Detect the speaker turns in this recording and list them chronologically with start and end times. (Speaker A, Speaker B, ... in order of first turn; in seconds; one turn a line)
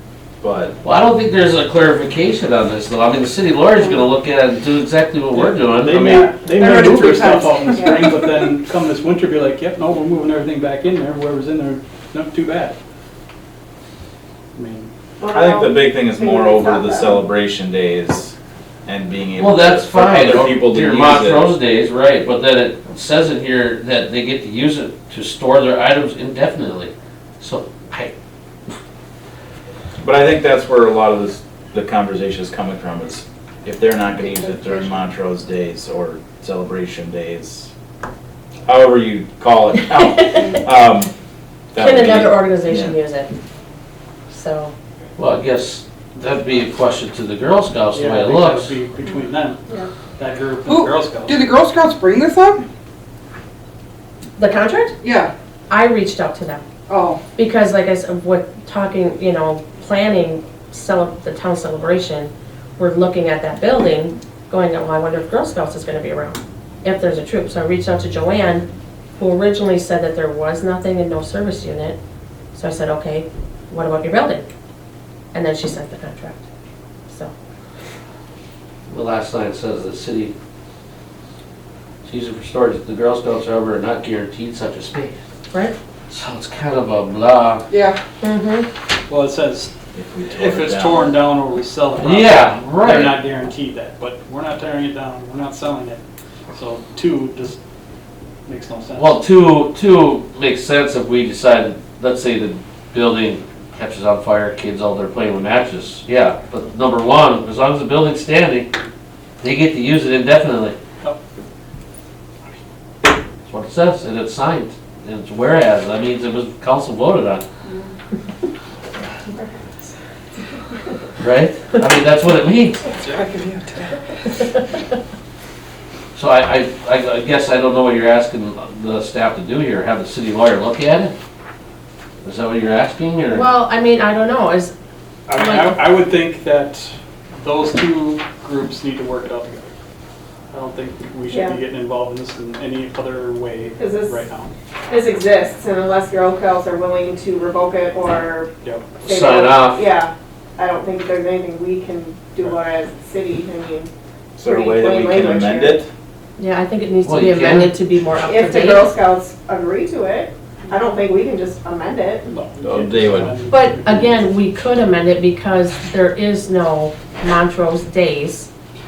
Speaker A: 0.4-0.7
Speaker B: 0.8-6.3
Speaker C: 5.4-12.8
Speaker D: 6.5-8.2
Speaker C: 14.6-14.9
Speaker E: 15.2-17.2
Speaker A: 15.3-21.5
Speaker B: 19.4-28.1
Speaker A: 30.0-37.7
Speaker E: 34.2-35.0
Speaker A: 38.7-41.1
Speaker F: 40.1-40.4
Speaker A: 41.7-43.0
Speaker F: 41.8-43.3
Speaker F: 44.3-44.7
Speaker B: 45.2-48.7
Speaker C: 47.9-49.6
Speaker C: 50.2-51.5
Speaker D: 50.6-52.6
Speaker F: 54.4-54.9
Speaker D: 55.0-55.3
Speaker F: 55.7-56.6
Speaker D: 56.9-57.2
Speaker F: 57.4-68.7
Speaker F: 69.2-72.0
Speaker F: 72.5-74.5
Speaker F: 75.3-76.4
Speaker F: 77.1-77.3
Speaker B: 78.9-80.3
Speaker B: 82.0-85.2
Speaker B: 86.1-87.7
Speaker D: 87.7-88.0
Speaker F: 88.2-88.7
Speaker C: 89.1-89.7
Speaker A: 89.9-91.1
Speaker C: 90.3-96.0
Speaker B: 92.0-93.2
Speaker C: 96.5-97.6
Speaker C: 98.5-99.2
Speaker B: 99.0-108.7
Speaker B: 109.4-110.8
Speaker B: 113.5-117.4
Speaker E: 119.3-119.9
Speaker B: 121.2-122.8
Speaker D: 123.0-124.0
Speaker B: 126.2-131.2
Speaker B: 132.2-133.5
Speaker F: 133.3-134.7
Speaker C: 135.3-139.7
Speaker F: 135.3-135.8
Speaker C: 140.5-144.5
Speaker E: 141.3-141.6
Speaker E: 143.8-144.2
Speaker E: 144.9-153.9
Speaker C: 148.6-148.9
Speaker B: 149.0-149.9
Speaker A: 154.4-155.9
Speaker E: 154.4-155.8
Speaker F: 156.4-159.0
Speaker B: 157.1-157.7
Speaker E: 158.2-162.3
Speaker C: 162.3-164.2
Speaker A: 162.6-163.3
Speaker F: 163.5-168.5